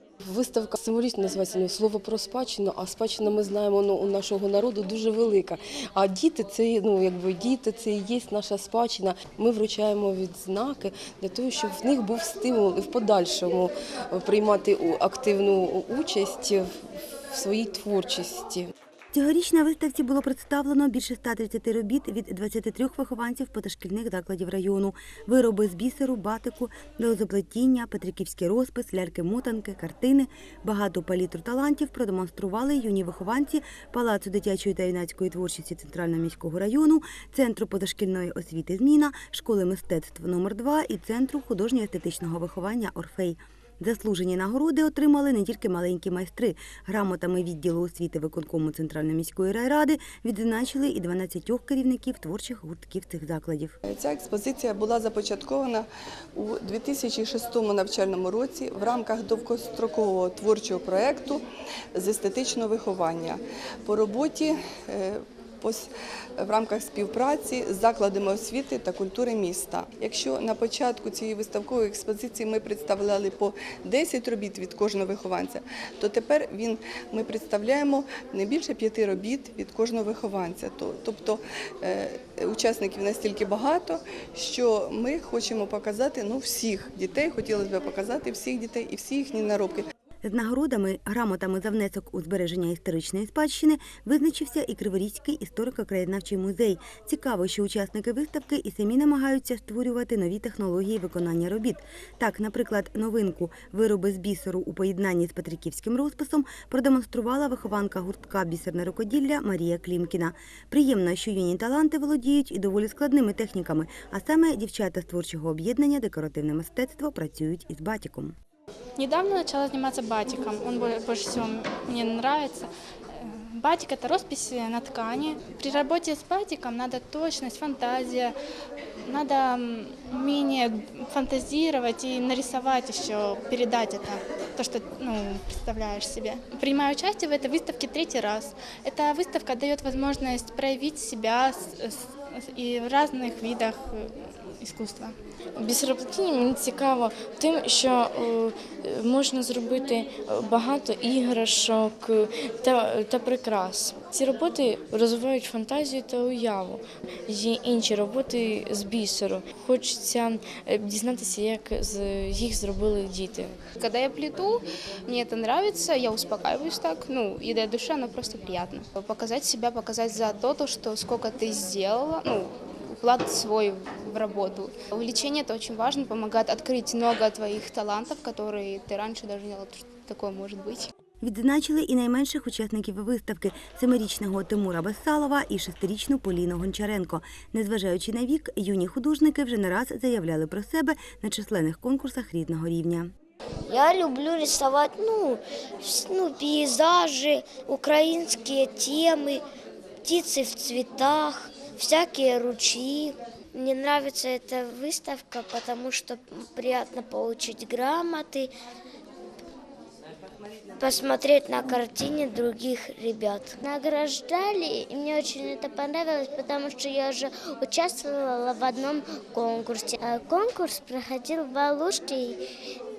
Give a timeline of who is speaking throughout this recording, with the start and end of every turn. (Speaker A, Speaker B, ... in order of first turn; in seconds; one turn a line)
Speaker A: 0.2-18.7
Speaker B: 19.1-53.8
Speaker C: 53.9-61.4
Speaker C: 62.0-65.9
Speaker C: 66.4-89.8
Speaker B: 90.2-118.3
Speaker D: 119.0-128.3
Speaker D: 129.1-145.2
Speaker E: 145.6-163.5
Speaker F: 163.8-180.9
Speaker B: 181.2-193.1
Speaker G: 193.7-199.3
Speaker G: 200.0-208.4
Speaker G: 210.8-222.4